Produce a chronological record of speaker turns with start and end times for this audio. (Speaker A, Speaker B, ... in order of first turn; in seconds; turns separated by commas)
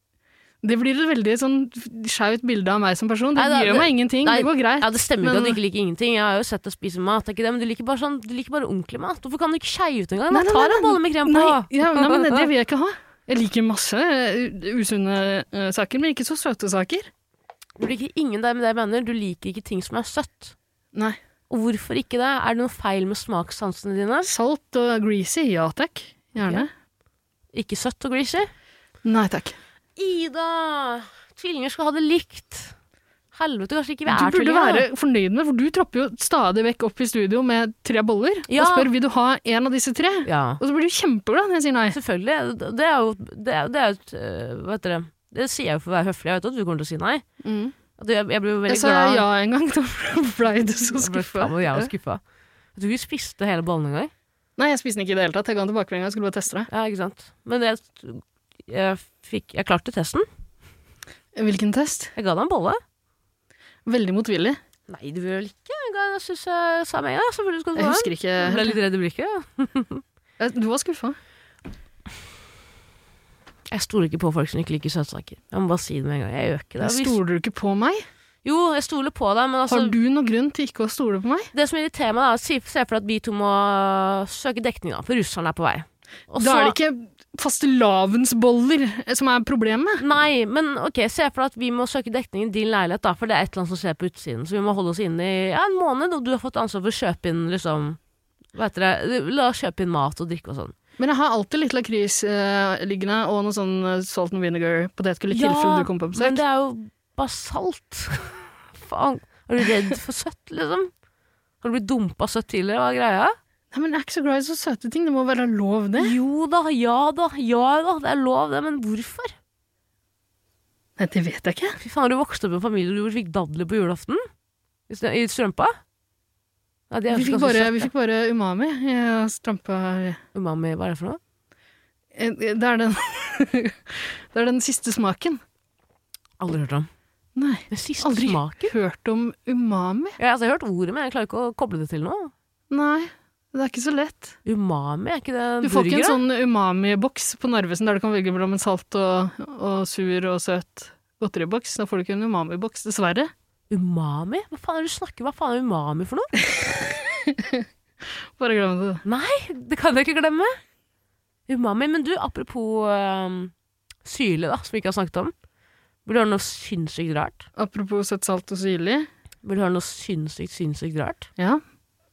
Speaker A: 0.6-5.6, Speaker B: 3.4-12.5, Speaker A: 10.3-17.1, Speaker B: 17.8-20.5, Speaker B: 21.5-24.3, Speaker A: 24.2-26.7, Speaker B: 27.5-28.5, Speaker A: 29.0-29.6, Speaker B: 30.0-32.8, Speaker B: 33.3-34.9, Speaker A: 34.1-42.0, Speaker B: 38.5-38.9, Speaker B: 40.2-40.6, Speaker B: 41.9-47.2, Speaker A: 47.4-47.8, Speaker B: 48.0-49.2, Speaker A: 48.7-51.9, Speaker B: 51.0-52.2, Speaker B: 52.8-54.1, Speaker A: 54.6-56.7, Speaker B: 56.7-60.2, Speaker A: 61.4-62.1, Speaker B: 62.1-62.8, Speaker A: 63.9-64.6, Speaker B: 64.9-70.0, Speaker A: 67.8-68.8, Speaker A: 70.4-71.2, Speaker B: 73.7-77.2, Speaker A: 76.8-78.1, Speaker B: 78.4-80.0, Speaker A: 79.7-81.5, Speaker B: 81.5-86.8, Speaker A: 86.4-90.0, Speaker B: 90.0-98.0, Speaker B: 98.5-100.7, Speaker A: 101.0-106.4, Speaker B: 105.3-110.9, Speaker B: 111.6-113.3, Speaker A: 113.7-116.1, Speaker B: 116.0-119.3, Speaker A: 121.0-121.8, Speaker B: 121.8-124.2, Speaker B: 124.9-125.8, Speaker B: 126.9-127.9, Speaker A: 127.1-130.2, Speaker B: 130.3-131.2, Speaker A: 132.1-135.4, Speaker B: 136.4-136.9, Speaker A: 137.3-140.2, Speaker B: 137.7-138.7, Speaker B: 140.2-142.3, Speaker A: 142.7-144.4, Speaker B: 144.4-146.2, Speaker A: 145.6-153.3, Speaker B: 153.7-156.5, Speaker A: 156.8-157.6, Speaker A: 158.4-159.0, Speaker B: 159.0-160.6, Speaker B: 161.5-163.5, Speaker B: 164.0-165.3, Speaker B: 166.0-167.5, Speaker A: 167.6-169.1, Speaker B: 169.4-171.3